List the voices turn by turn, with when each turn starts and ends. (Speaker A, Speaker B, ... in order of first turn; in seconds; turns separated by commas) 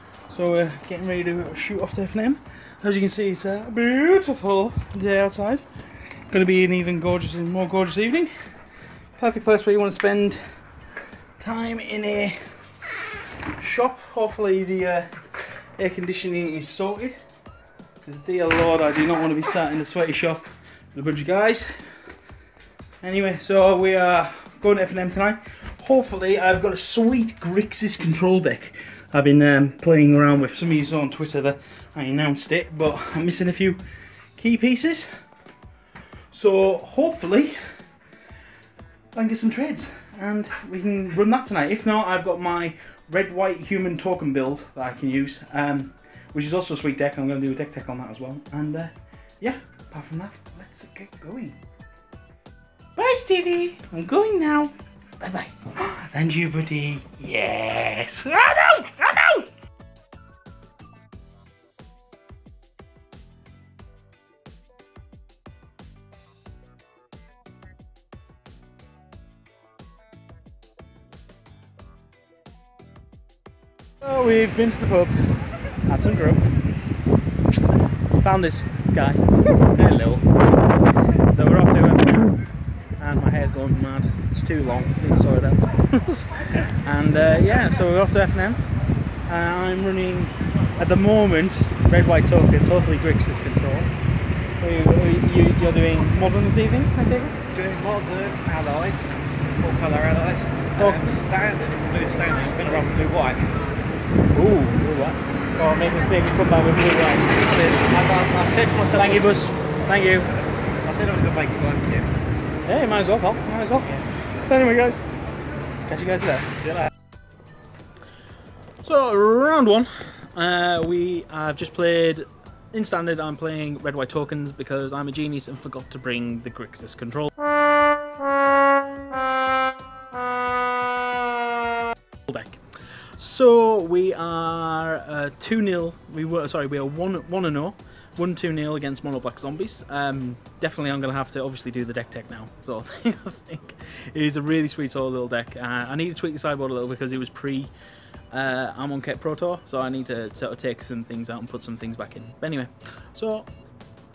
Speaker A: 0.3-5.6, Speaker A: 6.3-8.3, Speaker A: 9.2-10.5, Speaker A: 11.4-12.4, Speaker A: 13.4-15.1, Speaker A: 15.8-17.2, Speaker A: 18.0-21.7, Speaker A: 23.0-33.8, Speaker A: 34.4-35.1, Speaker A: 36.3-37.6, Speaker A: 39.1-51.6, Speaker A: 53.0-59.5, Speaker A: 74.0-75.2, Speaker A: 75.8-76.5, Speaker A: 78.2-80.2, Speaker A: 81.2-82.4, Speaker A: 83.0-88.6, Speaker A: 89.3-93.9, Speaker A: 94.6-97.4, Speaker B: 97.5-103.6, Speaker A: 100.8-101.2, Speaker A: 104.3-107.5, Speaker B: 107.5-109.3, Speaker A: 109.0-110.3, Speaker B: 110.5-112.1, Speaker A: 112.7-115.1, Speaker A: 115.9-116.7, Speaker A: 118.8-127.3, Speaker A: 132.2-132.6, Speaker A: 133.2-147.7, Speaker A: 148.3-153.5